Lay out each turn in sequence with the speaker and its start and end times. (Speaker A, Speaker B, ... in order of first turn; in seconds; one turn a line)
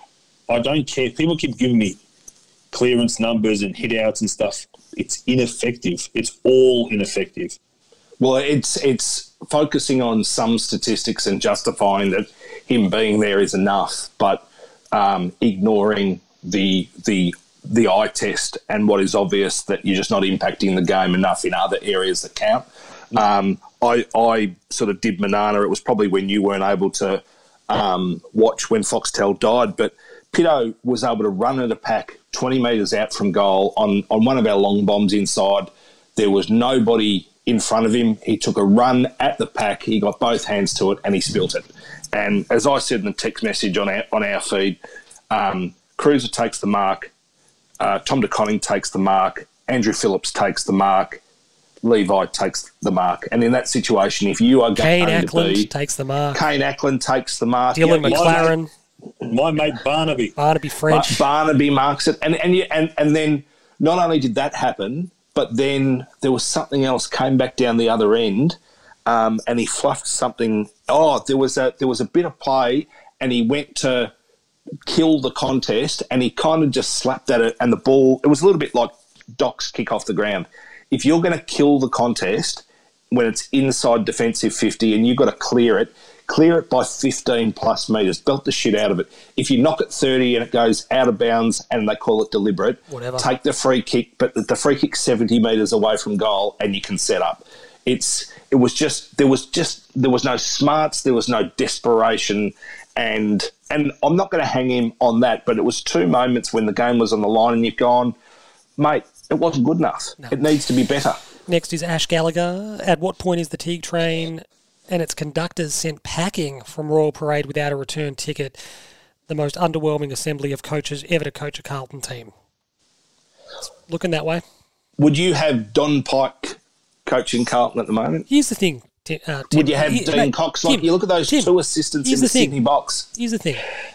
Speaker A: 0.5-2.0
Speaker A: 2.7-7.6
Speaker B: 8.2-44.8
Speaker B: 45.3-47.1
Speaker B: 47.8-51.2
Speaker B: 51.8-55.7
Speaker C: 54.8-56.4
Speaker B: 56.3-58.5
Speaker C: 57.7-58.7
Speaker A: 58.1-58.5
Speaker A: 59.2-60.3
Speaker C: 60.4-61.2
Speaker B: 60.9-74.1
Speaker B: 74.8-108.1
Speaker C: 92.9-93.3
Speaker B: 108.8-111.2
Speaker C: 111.5-118.6
Speaker C: 119.3-122.3
Speaker C: 123.9-124.4
Speaker B: 125.0-128.3
Speaker C: 128.3-131.5
Speaker B: 129.5-133.1
Speaker C: 132.0-132.6
Speaker C: 133.1-133.7